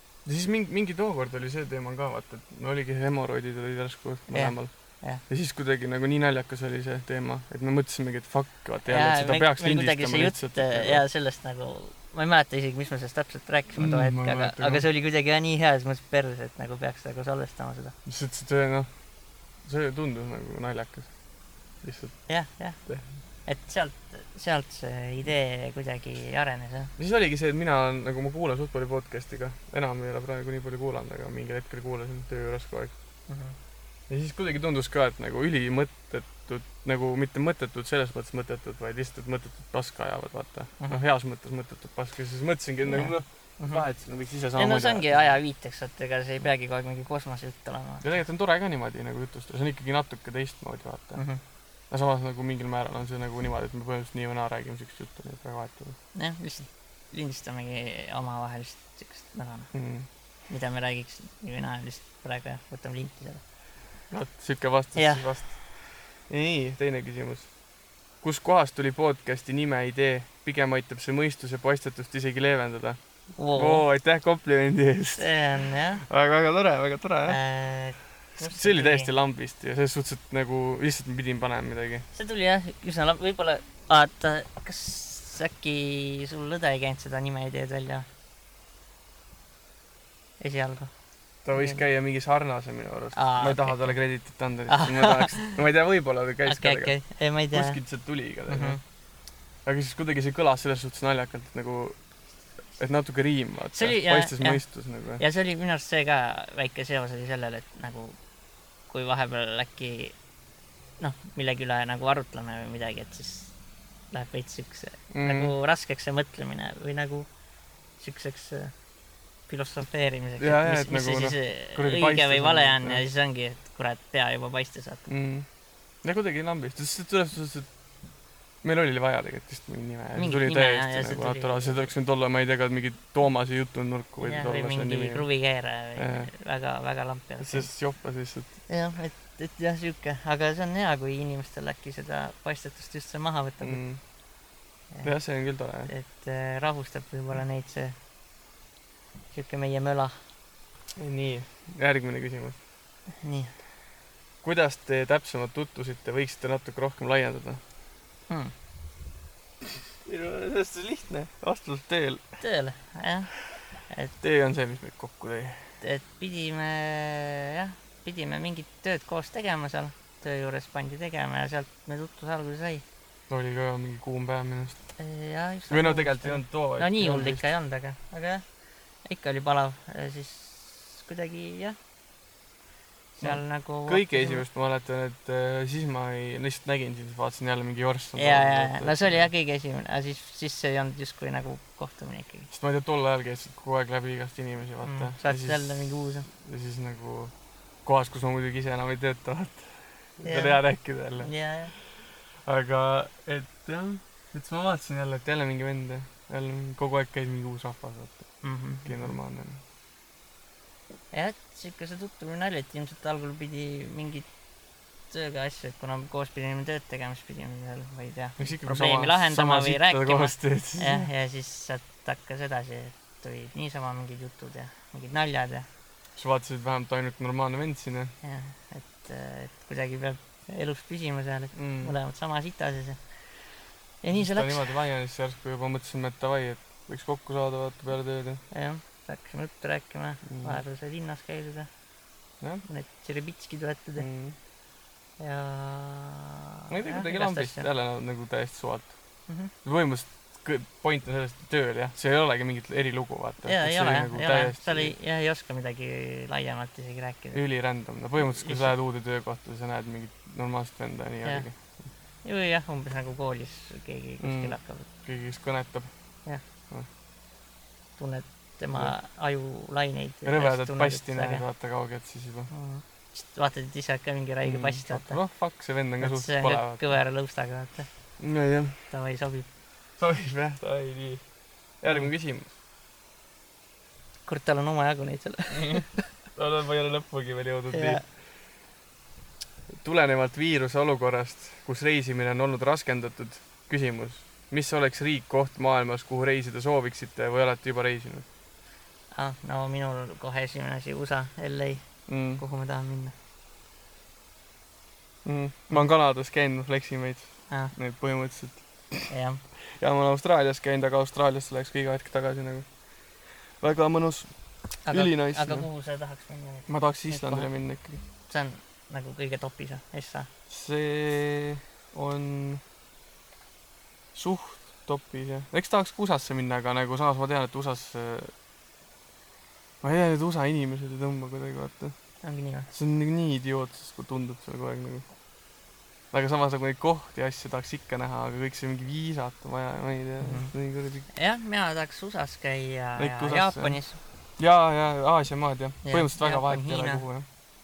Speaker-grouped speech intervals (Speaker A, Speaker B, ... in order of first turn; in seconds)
Speaker A: 0.2-4.7, 5.2-11.0, 13.8-14.9, 18.1-18.9, 19.6-21.1, 21.8-22.2, 27.0-32.9, 34.1-45.3, 48.0-51.2, 51.9-56.0, 59.7-60.1, 64.1-65.7, 66.3-67.5, 68.2-73.0, 73.5-75.3, 76.0-77.4, 78.4-82.1, 91.5-96.9, 97.5-98.8, 99.7-102.0, 102.8-105.2, 115.1-115.5, 120.4-123.0, 125.1-125.5, 126.0-127.7, 128.6-135.3, 136.0-136.3, 137.4-138.5, 143.6-144.0, 145.0-145.9, 151.0-152.6, 154.4-157.6, 160.0-162.2, 164.2-165.7, 173.3-174.8, 175.7-177.5, 183.2-189.3, 192.5-197.3, 197.8-201.3, 202.4-208.3, 208.8-209.6, 218.4-221.1, 226.2-228.1, 231.6-232.0, 234.1-238.4, 240.3-240.6, 244.0-244.4, 246.7-248.9, 249.6-254.9, 257.3-261.9, 264.2-265.9, 270.2-272.5, 274.4-277.0, 278.2-278.9, 280.0-281.2, 281.8-282.5, 285.5-285.8, 286.4-288.0, 289.7-298.3, 302.1-302.4, 305.2-312.7, 313.6-314.3, 314.9-315.7, 316.7-318.0, 320.5-322.6, 324.1-328.3, 329.8-331.9, 332.7-335.1, 336.1-341.1, 343.0-343.8, 344.4-347.3
Speaker B: 4.3-5.2, 8.9-17.9, 22.3-22.8, 23.5-26.9, 33.3-33.6, 42.9-43.9, 44.6-48.1, 51.1-51.4, 56.1-59.7, 60.5-63.4, 65.0-65.2, 73.4-73.8, 75.2-76.0, 77.3-79.1, 82.1-88.1, 90.4-90.9, 91.5-91.8, 93.1-94.0, 94.7-95.6, 96.5-97.8, 98.5-98.8, 103.7-104.6, 105.2-108.2, 108.9-110.2, 111.0-113.5, 114.1-117.3, 118.0-118.7, 119.5-125.1, 130.2-131.8, 134.2-137.7, 138.7-143.8, 145.9-148.0, 149.3-150.2, 153.2-153.5, 158.3-158.5, 162.4-163.3, 165.8-172.8, 175.0-178.4, 179.1-181.8, 183.2-184.4, 188.2-192.5, 194.8-196.3, 200.2-200.6, 201.2-201.7, 208.4-209.1, 211.1-214.3, 215.1-225.7, 228.2-233.4, 234.0-234.7, 238.5-241.7, 242.7-244.1, 245.2-247.7, 253.4-257.4, 258.3-258.7, 262.2-264.9, 268.0-271.4, 272.5-275.2, 276.0-277.9, 278.9-279.5, 284.3-286.1, 287.7-288.1, 299.1-303.1, 309.1-309.4, 314.9-317.5, 318.3-320.3, 332.2-332.7, 340.2-340.5, 341.1-344.0, 345.8-347.0